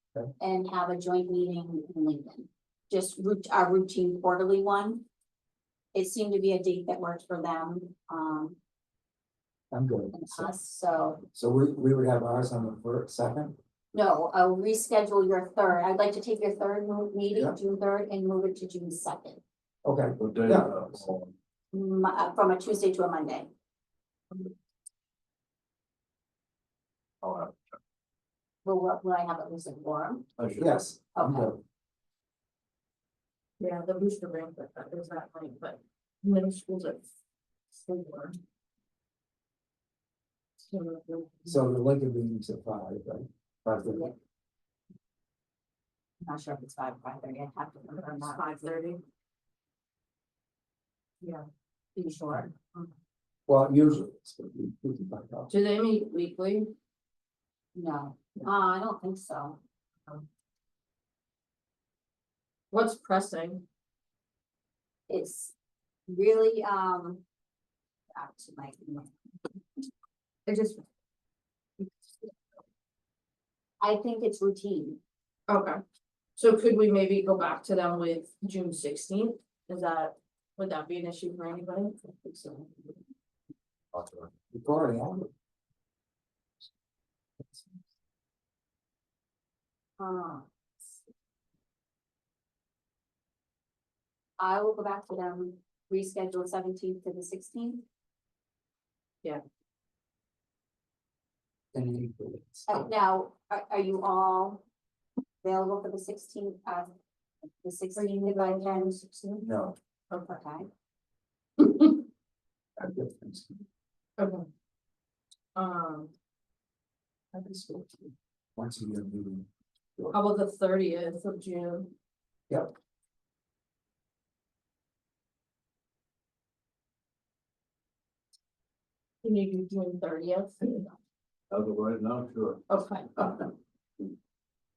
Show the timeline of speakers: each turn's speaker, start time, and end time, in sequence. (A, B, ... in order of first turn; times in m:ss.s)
0:00.4-0:05.0 A
0:05.9-0:08.6 A
0:09.7-0:10.5 B
0:10.1-0:11.2 A
0:11.3-0:13.6 B
0:13.9-0:19.4 A
0:19.8-0:21.0 B
0:20.2-0:21.3 C
0:21.7-0:23.5 A
0:27.2-0:27.8 C
0:28.6-0:30.2 A
0:30.4-0:30.8 C
0:30.6-0:31.6 B
0:31.1-0:31.5 A
0:33.6-0:37.1 D
0:37.7-0:38.4 D
0:40.7-0:41.6 D
0:41.5-0:44.1 B
0:46.2-0:48.8 A
0:47.9-0:49.0 D
0:52.0-0:52.9 A
0:53.5-0:55.5 B
0:55.5-0:56.7 D
0:57.7-0:59.6 A
1:02.7-1:03.6 D
1:05.1-1:05.5 A
1:06.1-1:07.2 A
1:08.1-1:09.1 A
1:10.5-1:10.8 A
1:13.8-1:15.0 A
1:15.5-1:15.8 D
1:16.4-1:22.9 D
1:23.9-1:24.3 C
1:24.5-1:25.3 B
1:30.0-1:30.4 A
1:34.4-1:37.8 A
1:41.7-1:42.7 B
1:42.7-1:44.6 A
1:45.4-1:46.9 A
1:47.6-1:49.0 A
1:48.0-1:49.5 D
1:49.4-1:49.8 B
1:50.1-1:50.7 A
1:51.6-1:52.0 D
1:52.8-1:53.6 B
1:54.2-1:54.4 D
1:55.6-1:56.1 D
1:57.3-2:00.1 B
2:00.1-2:01.9 D
2:09.2-2:10.9 D
2:11.5-2:12.6 C
2:12.7-2:13.5 D